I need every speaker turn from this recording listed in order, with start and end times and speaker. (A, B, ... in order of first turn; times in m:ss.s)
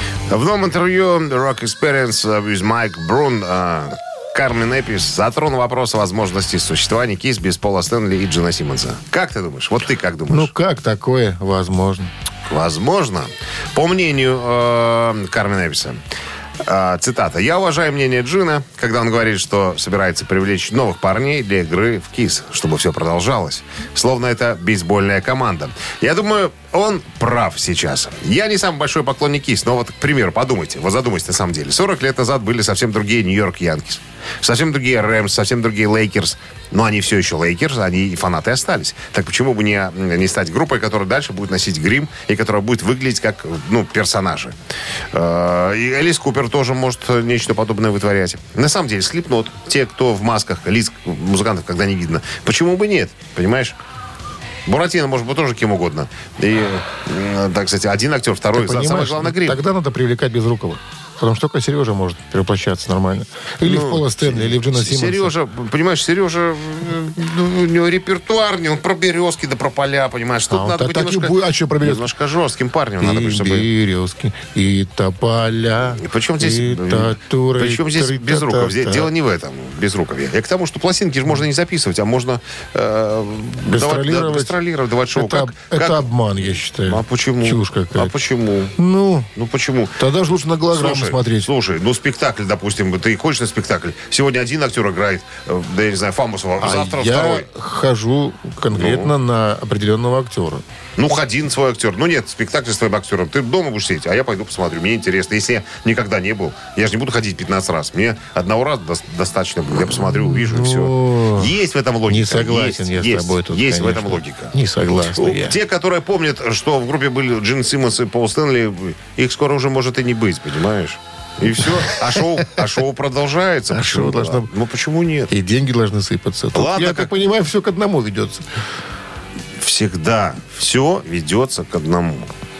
0:00.3-0:10.5 A
0:10.3-0:12.1 B
0:12.5-0:16.0 A
0:16.6-0:44.5 A
0:45.1-0:53.8 A
0:54.6-0:59.6 A
0:58.5-1:05.3 B
1:03.6-1:13.7 A
1:10.5-1:12.1 B
1:13.0-1:19.1 B
1:16.0-1:26.1 A
1:23.7-1:24.5 B
1:25.1-1:28.1 B
1:26.8-1:28.8 A
1:28.8-1:29.3 B
1:29.4-1:30.0 A
1:30.0-1:31.5 B
1:30.7-1:37.5 A
1:36.6-1:40.6 B
1:38.7-1:39.1 A
1:41.0-2:05.3 A
1:49.9-1:51.5 B
1:52.1-1:55.6 B
2:03.7-2:04.5 B
2:05.3-2:08.4 B
2:06.5-2:07.1 A
2:09.6-2:12.3 A